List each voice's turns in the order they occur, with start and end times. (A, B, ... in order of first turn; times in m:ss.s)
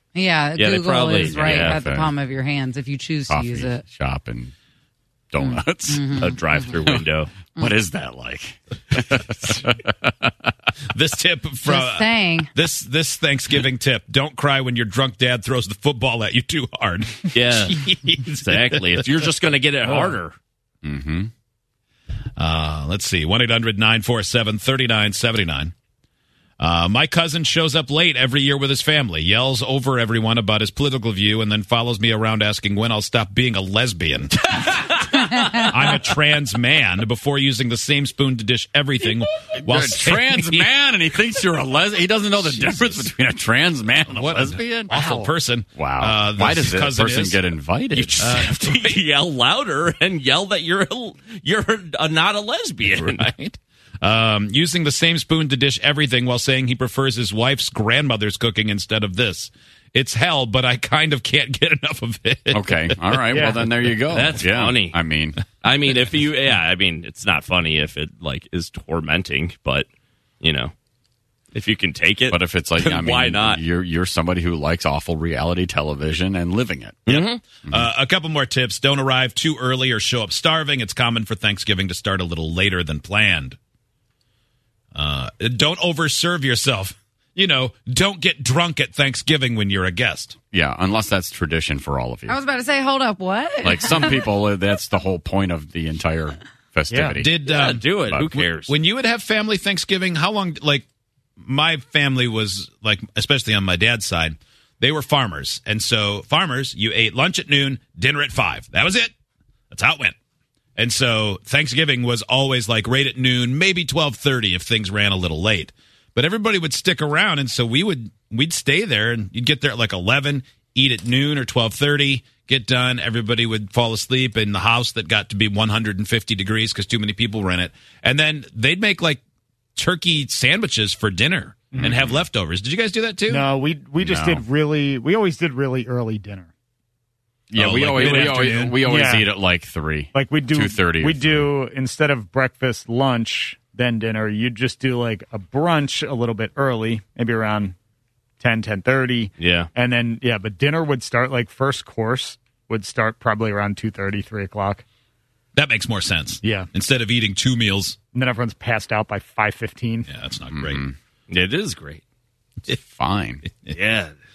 0:00.1-0:03.8 A
0:00.6-0:01.8 B
0:01.2-0:02.1 C
0:03.3-0:04.5 C
0:05.3-0:06.4 C
0:05.4-0:06.6 A
0:06.2-0:07.3 B
0:07.6-0:10.3 C
0:10.9-0:18.8 D
0:11.7-0:12.5 A
0:17.3-0:17.8 B
0:18.4-0:20.4 B
0:20.8-0:21.3 C
0:22.4-0:25.7 D
0:26.6-0:34.9 D
0:35.6-0:40.7 D
0:39.6-0:48.4 C
0:42.4-0:43.1 D
0:44.1-0:49.0 D
0:48.2-0:53.3 B
0:52.8-1:03.3 D
1:02.5-1:05.4 C
1:03.3-1:03.7 E
1:04.1-1:05.0 B
1:05.6-1:09.9 B
1:10.4-1:10.7 B
1:11.5-1:13.6 B
1:12.3-1:17.1 C
1:17.1-1:17.4 B
1:17.1-1:23.6 D
1:17.6-1:18.0 C
1:25.0-1:30.4 D
1:30.5-1:32.4 C
1:32.3-1:34.3 A
1:33.6-1:38.4 C
1:36.9-1:37.2 E
1:37.2-1:40.9 D
1:37.5-1:38.7 B
1:41.4-1:49.1 D
1:49.7-1:50.2 D
1:50.8-2:09.2 D
2:09.8-2:13.5 D
2:11.8-2:12.3 C
2:13.3-2:16.5 E
2:14.0-2:14.4 C
2:17.5-2:21.6 C
2:17.6-2:18.8 D
2:18.0-2:19.4 E
2:20.1-2:27.8 E
2:28.4-2:34.8 E
2:29.4-2:29.7 B
2:35.6-2:38.0 D
2:36.4-2:36.7 E
2:38.1-2:40.1 E
2:40.1-2:40.9 D
2:40.5-2:40.9 C
2:41.3-2:42.0 B
2:42.8-2:43.5 C
2:43.5-2:43.8 D
2:43.7-2:44.1 B